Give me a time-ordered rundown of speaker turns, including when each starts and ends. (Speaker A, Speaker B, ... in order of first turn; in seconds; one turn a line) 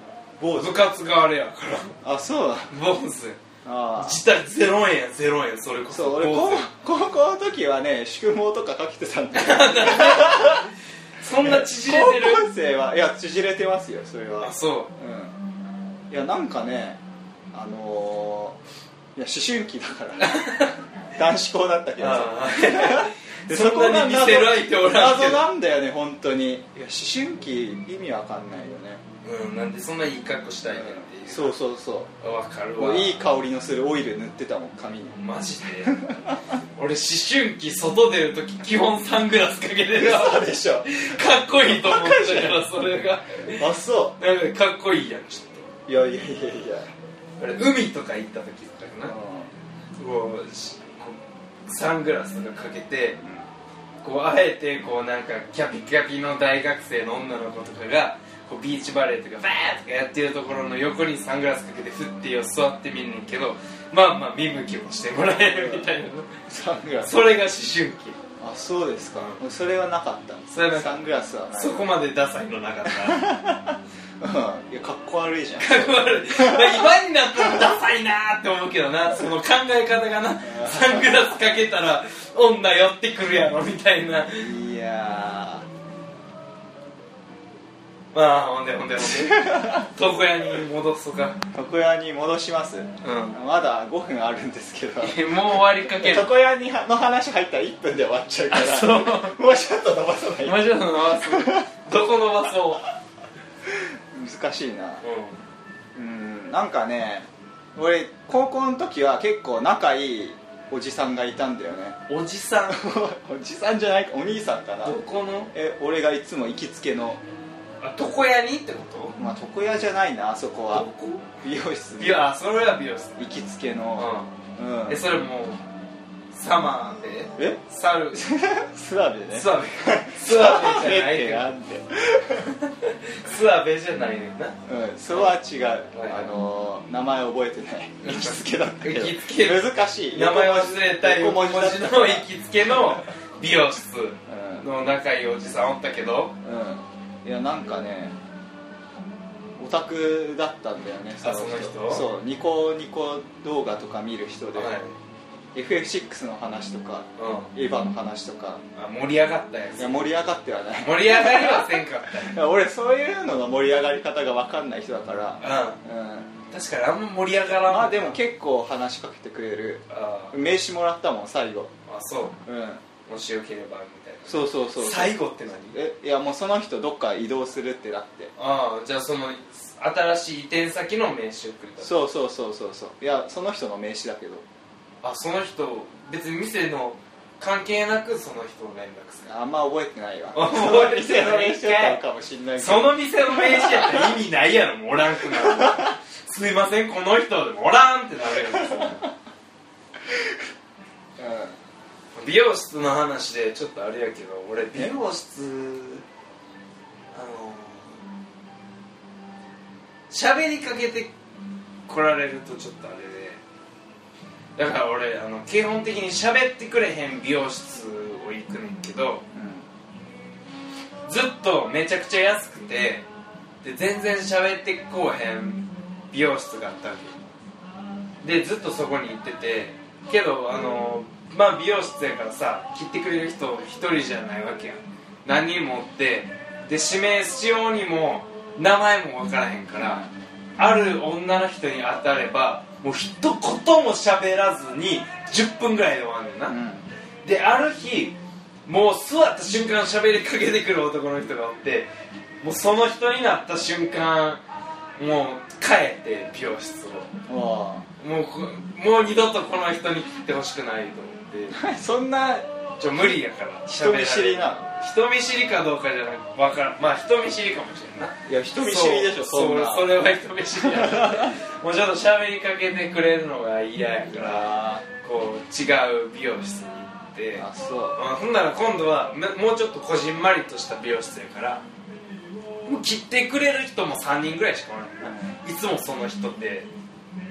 Speaker A: 0.4-0.8
Speaker B: 0.6-2.0
Speaker A: 2.0-2.7
Speaker B: 2.7-3.4
Speaker A: 3.6-4.2
Speaker B: 4.0-6.7
Speaker A: 5.9-10.7
Speaker B: 9.3-12.5
Speaker A: 11.4-15.3
Speaker B: 14.4-14.9
Speaker A: 16.1-17.0
Speaker A: 17.5-18.6
Speaker A: 19.1-20.5
Speaker B: 20.2-20.8
Speaker A: 21.1-29.0
Speaker B: 22.0-25.5
Speaker B: 29.2-31.6
Speaker A: 30.7-32.1
Speaker B: 32.2-33.2
Speaker A: 32.8-35.2
Speaker B: 35.2-36.0
Speaker A: 35.8-36.4
Speaker B: 36.7-45.7
Speaker A: 39.9-42.6
Speaker A: 43.5-44.2
Speaker A: 45.9-46.9
Speaker B: 47.4-49.1
Speaker A: 49.0-49.5
Speaker B: 50.0-53.2
Speaker A: 53.2-53.4
Speaker B: 54.0-66.3
Speaker A: 65.4-65.9
Speaker A: 66.5-67.3
Speaker B: 67.0-68.2
Speaker A: 68.4-71.9
Speaker B: 69.2-69.4
Speaker B: 70.5-73.3
Speaker A: 72.9-77.7
Speaker B: 75.6-84.5
Speaker A: 80.4-81.4
Speaker A: 84.3-85.7
Speaker B: 88.1-91.4
Speaker A: 89.1-89.9
Speaker A: 91.5-95.2
Speaker B: 93.0-93.4
Speaker B: 95.0-96.3
Speaker A: 95.8-101.7
Speaker B: 98.5-99.4
Speaker B: 100.4-102.9
Speaker A: 103.7-105.0
Speaker B: 105.0-105.4
Speaker A: 105.9-112.0
Speaker B: 112.1-112.8
Speaker A: 112.7-115.0
Speaker B: 114.8-115.5
Speaker A: 115.5-117.2
Speaker B: 117.8-119.2
Speaker A: 119.2-120.9
Speaker B: 120.7-121.2
Speaker A: 121.4-122.3
Speaker B: 122.0-123.3
Speaker A: 123.2-125.0
Speaker B: 124.0-124.3
Speaker B: 124.9-125.6
Speaker B: 126.3-128.3
Speaker A: 127.3-127.6
Speaker A: 128.1-132.5
Speaker B: 129.3-131.5
Speaker B: 132.6-134.6
Speaker A: 134.7-142.3
Speaker B: 135.9-136.3
Speaker B: 138.0-146.3
Speaker A: 144.3-144.7
Speaker A: 146.4-148.2
Speaker A: 149.6-154.8
Speaker B: 151.2-152.1
Speaker B: 154.5-154.9
Speaker A: 155.5-158.6
Speaker B: 157.2-157.5
Speaker B: 158.8-160.1
Speaker A: 159.8-166.3
Speaker B: 160.8-162.4
Speaker B: 165.4-165.8
Speaker B: 166.5-168.2
Speaker A: 167.6-171.7
Speaker B: 169.9-170.3
Speaker B: 171.9-172.4
Speaker A: 172.4-172.8
Speaker B: 173.1-175.8
Speaker A: 174.2-175.2
Speaker A: 175.7-178.3
Speaker B: 178.3-182.1
Speaker A: 181.8-184.4
Speaker B: 185.0-189.3
Speaker A: 189.2-194.2
Speaker B: 190.3-192.0
Speaker B: 192.6-199.0
Speaker A: 195.3-195.9
Speaker A: 198.6-199.0
Speaker A: 201.2-201.6
Speaker B: 202.2-206.0
Speaker B: 207.1-208.0
Speaker B: 210.1-211.1
Speaker B: 211.9-213.4
Speaker B: 214.6-219.2
Speaker A: 219.3-219.7
Speaker B: 221.0-223.1
Speaker B: 223.6-227.2
Speaker B: 228.2-240.0
Speaker A: 239.8-240.1
Speaker B: 240.6-246.6
Speaker A: 246.5-246.9
Speaker B: 247.2-251.9
Speaker B: 252.4-254.4
Speaker B: 255.0-257.1
Speaker A: 257.3-257.9
Speaker B: 258.0-261.6
Speaker A: 261.5-262.5
Speaker B: 262.8-281.6
Speaker A: 263.7-264.7
Speaker A: 268.2-269.9
Speaker A: 270.6-271.4
Speaker A: 274.1-274.8
Speaker A: 277.4-278.0
Speaker B: 282.6-286.7
Speaker A: 285.0-285.4